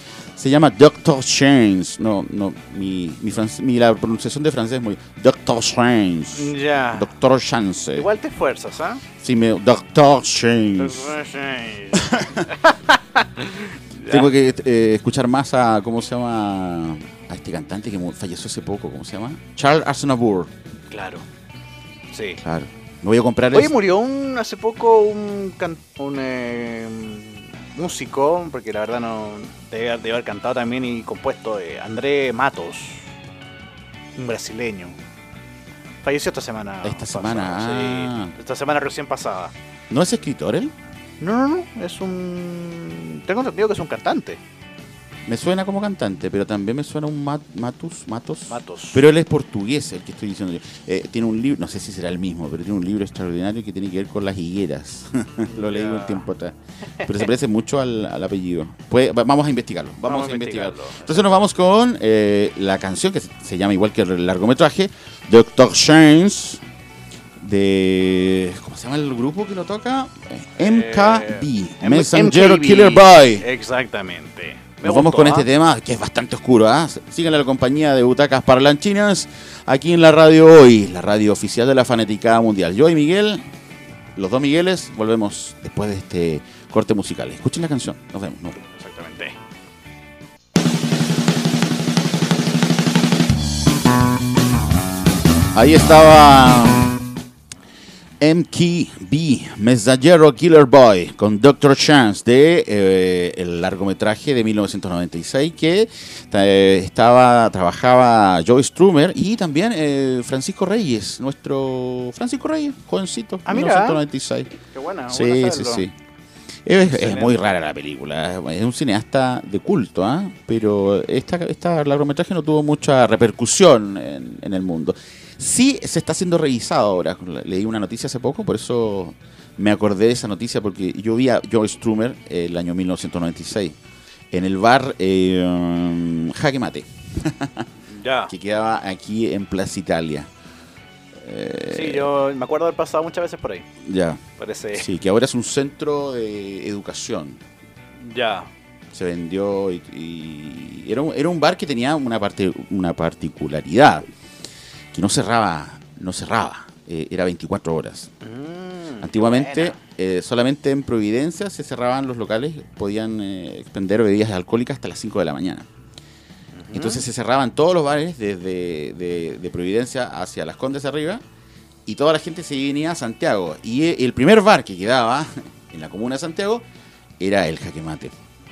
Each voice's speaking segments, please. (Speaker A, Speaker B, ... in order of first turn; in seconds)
Speaker A: 0.4-8.1, 9.2-11.2, 11.9-12.4, 14.1-20.5, 22.4-23.8, 36.8-38.4, 39.9-40.7, 45.3-66.6, 67.4-73.5, 74.8-83.4, 84.2-88.6, 95.5-96.9, 98.2-114.6, 115.1-115.9, 116.7-133.8, 134.3-137.7, 138.3-140.3, 141.2-142.1, 143.8-144.2, 144.7-147.4, 148.9-154.1, 154.9-158.1, 159.0-165.7, 166.7-171.2, 171.9-176.7, 177.2-178.1
Speaker B: 6.3-7.1, 8.0-9.0, 10.8-14.3, 20.9-21.2, 22.1-22.4, 23.5-33.0, 34.2-35.0, 36.0-39.5, 41.2-44.4, 48.5-49.0, 55.5-56.2, 60.1-61.4, 70.6-75.5, 88.6-89.4, 113.5-114.0, 114.6-115.8, 116.8-117.3, 137.9-138.3, 141.7-143.7, 144.4-144.9, 148.0-148.5, 158.2-159.8, 166.6-167.0